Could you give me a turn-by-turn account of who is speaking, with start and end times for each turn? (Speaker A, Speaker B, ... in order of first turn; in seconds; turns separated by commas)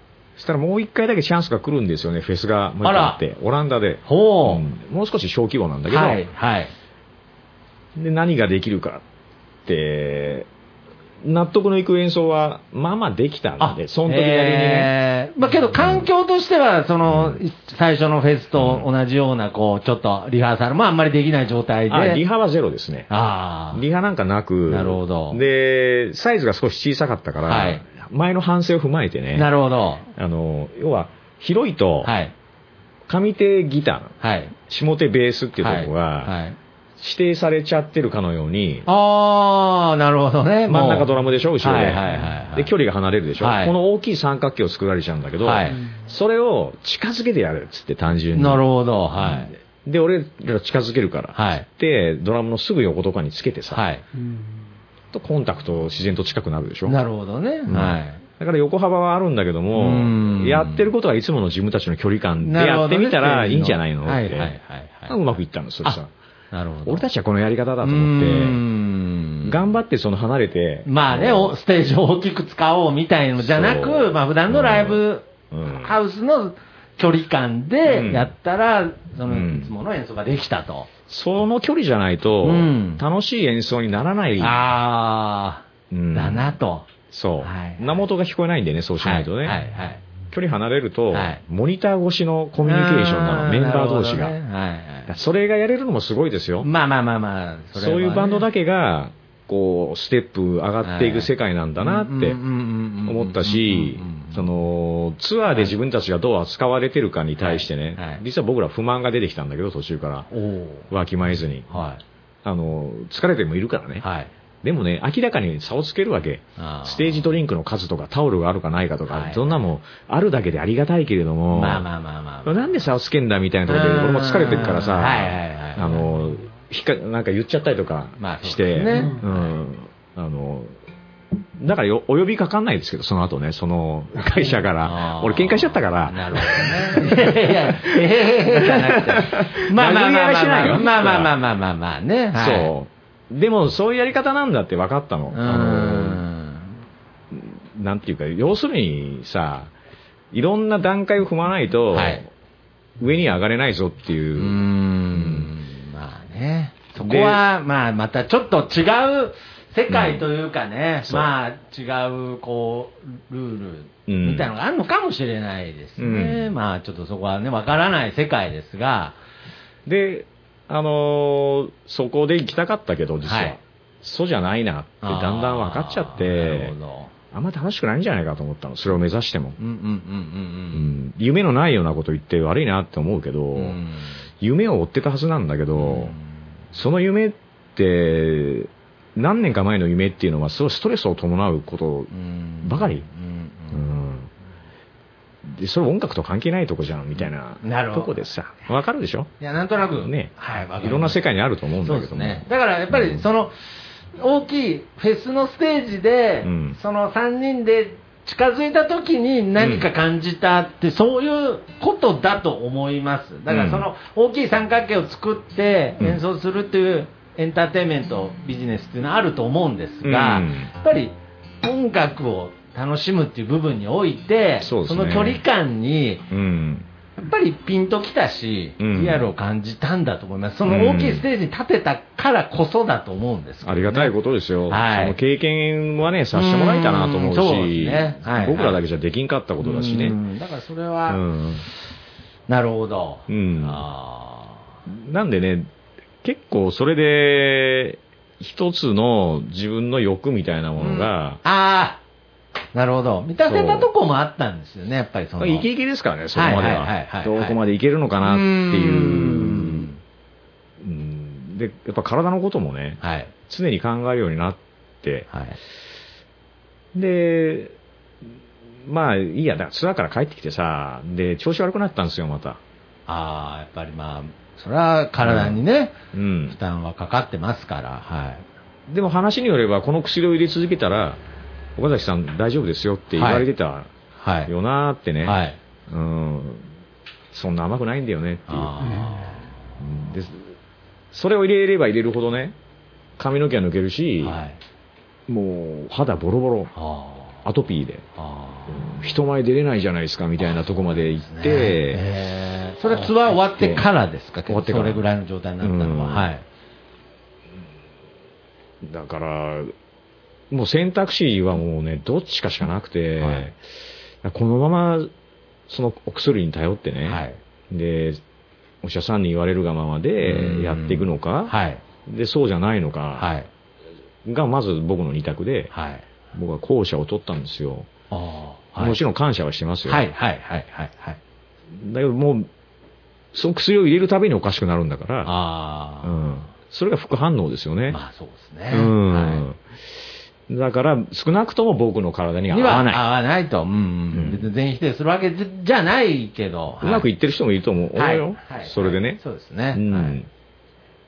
Speaker A: 0.4-6.2, Speaker B: 2.8-3.2, Speaker B: 4.0-4.7, Speaker B: 5.9-6.7, Speaker A: 8.0-9.0, Speaker A: 9.7-10.5, Speaker A: 11.2-14.9, Speaker B: 13.6-22.2, Speaker A: 15.7-16.1, Speaker A: 17.1-17.4, Speaker A: 18.6-18.9, Speaker A: 21.9-23.1, Speaker B: 23.1-23.8, Speaker A: 23.7-29.5, Speaker B: 24.7-25.4, Speaker B: 27.5-27.8, Speaker B: 29.3-30.1, Speaker A: 30.1-32.1, Speaker B: 32.0-32.3, Speaker A: 33.1-34.1, Speaker B: 34.2-34.5, Speaker A: 34.7-36.3, Speaker B: 35.6-36.6, Speaker A: 37.0-38.9, Speaker B: 38.9-41.1, Speaker A: 40.7-48.6, Speaker B: 41.6-42.7, Speaker B: 43.4-43.7, Speaker B: 45.4-45.8, Speaker B: 48.3-49.5, Speaker A: 49.1-53.9, Speaker B: 51.3-51.7, Speaker B: 53.7-54.0, Speaker A: 55.1-57.0, Speaker B: 56.9-58.2, Speaker A: 57.7-64.5, Speaker B: 59.7-60.9, Speaker B: 62.4-66.0, Speaker A: 65.1-66.1, Speaker B: 66.5-67.0, Speaker A: 66.8-68.6, Speaker B: 67.8-69.6, Speaker A: 69.4-71.5, Speaker B: 70.8-80.9, Speaker A: 73.4-76.0, Speaker A: 77.8-78.3, Speaker A: 79.3-79.7, Speaker A: 81.1-84.6, Speaker B: 82.4-83.0, Speaker B: 84.4-86.9, Speaker A: 85.9-86.5, Speaker A: 87.1-89.6, Speaker B: 87.4-88.0, Speaker B: 89.0-90.0, Speaker A: 90.3-94.3, Speaker B: 91.1-91.4, Speaker B: 92.6-95.1, Speaker A: 95.1-96.7, Speaker B: 96.6-98.5, Speaker A: 97.7-102.4, Speaker B: 100.8-104.5, Speaker A: 103.0-110.3, Speaker B: 105.5-105.7, Speaker B: 107.4-108.2, Speaker B: 110.3-110.9, Speaker A: 110.9-111.8, Speaker B: 111.7-112.0, Speaker A: 112.4-114.0, Speaker B: 114.0-114.3, Speaker A: 114.6-121.8, Speaker B: 116.6-117.3, Speaker B: 119.1-119.7, Speaker B: 121.5-122.8, Speaker A: 122.5-130.7, Speaker B: 123.7-126.1, Speaker B: 128.2-129.5, Speaker A: 131.6-138.0, Speaker B: 134.8-142.7, Speaker A: 139.1-141.3, Speaker A: 142.3-146.2, Speaker B: 145.3-146.8, Speaker A: 147.3-149.7, Speaker A: 150.3-152.3, Speaker B: 151.9-152.2, Speaker A: 153.0-154.6, Speaker B: 154.3-169.2, Speaker A: 155.1-155.5, Speaker A: 157.0-157.4, Speaker A: 159.9-160.2, Speaker A: 161.0-161.3, Speaker A: 164.1-164.5, Speaker A: 166.0-166.5, Speaker A: 169.8-176.7, Speaker B: 173.2-173.6, Speaker B: 175.0-177.1, Speaker A: 177.3-179.6, Speaker B: 179.6-180.9, Speaker A: 180.7-183.8, Speaker B: 183.5-184.2, Speaker A: 184.4-186.1, Speaker B: 185.7-186.3, Speaker A: 186.7-192.1, Speaker B: 192.1-193.8, Speaker A: 192.6-193.0, Speaker A: 193.7-194.3, Speaker A: 195.4-199.3, Speaker B: 197.6-198.2, Speaker B: 199.4-201.2, Speaker A: 200.0-203.2, Speaker B: 201.8-203.6, Speaker B: 204.2-226.2, Speaker A: 206.4-206.8, Speaker A: 209.6-209.9, Speaker A: 213.5-213.9, Speaker A: 220.0-220.7, Speaker A: 224.6-225.4, Speaker A: 226.3-226.9, Speaker B: 227.2-234.1, Speaker A: 228.8-229.2, Speaker A: 230.7-231.2, Speaker A: 233.6-240.2, Speaker B: 234.7-235.2, Speaker B: 236.3-238.8, Speaker B: 239.6-241.2, Speaker A: 241.1-241.6, Speaker B: 242.5-244.7, Speaker A: 243.3-243.8, Speaker A: 244.9-245.7, Speaker A: 246.2-251.4, Speaker B: 250.8-252.0, Speaker B: 252.7-255.7, Speaker A: 253.4-253.9, Speaker A: 255.4-259.9, Speaker B: 256.3-257.6, Speaker B: 258.2-260.0, Speaker A: 260.8-265.3, Speaker B: 263.0-263.3, Speaker B: 265.3-265.6, Speaker A: 266.9-267.7, Speaker A: 268.9-272.6, Speaker B: 273.1-276.0, Speaker A: 275.2-275.6, Speaker A: 276.1-276.6, Speaker B: 276.5-278.4, Speaker A: 278.9-281.2, Speaker A: 281.8-283.9, Speaker B: 283.1-283.5, Speaker B: 284.2-284.5, Speaker A: 284.5-286.7, Speaker B: 285.2-285.6, Speaker A: 287.3-289.1, Speaker B: 288.5-289.5, Speaker A: 289.8-290.5, Speaker A: 291.1-292.6, Speaker A: 293.2-294.4, Speaker B: 294.2-294.6, Speaker A: 295.3-296.7, Speaker B: 296.7-297.4, Speaker A: 297.4-298.1, Speaker B: 298.2-299.2, Speaker A: 298.7-302.0, Speaker B: 300.9-306.4, Speaker A: 302.9-303.9, Speaker A: 304.5-305.0, Speaker A: 305.6-306.3, Speaker A: 308.8-309.7, Speaker A: 310.5-313.6, Speaker B: 313.2-313.5, Speaker A: 314.2-315.1, Speaker A: 315.7-318.2, Speaker B: 317.0-317.4, Speaker A: 318.8-321.5, Speaker B: 320.2-321.8, Speaker A: 322.1-323.3, Speaker B: 323.1-323.5, Speaker A: 324.2-325.7, Speaker B: 325.7-326.0, Speaker A: 326.3-327.9, Speaker B: 328.1-329.0, Speaker A: 328.8-330.1, Speaker B: 329.9-331.2, Speaker A: 331.7-332.5, Speaker A: 333.3-335.3, Speaker B: 335.2-336.2, Speaker A: 336.0-338.0, Speaker B: 337.9-339.4, Speaker A: 338.7-339.6, Speaker A: 340.5-343.0, Speaker B: 342.5-347.1, Speaker A: 344.1-344.4, Speaker A: 346.8-349.2, Speaker B: 347.9-350.2, Speaker A: 349.7-350.3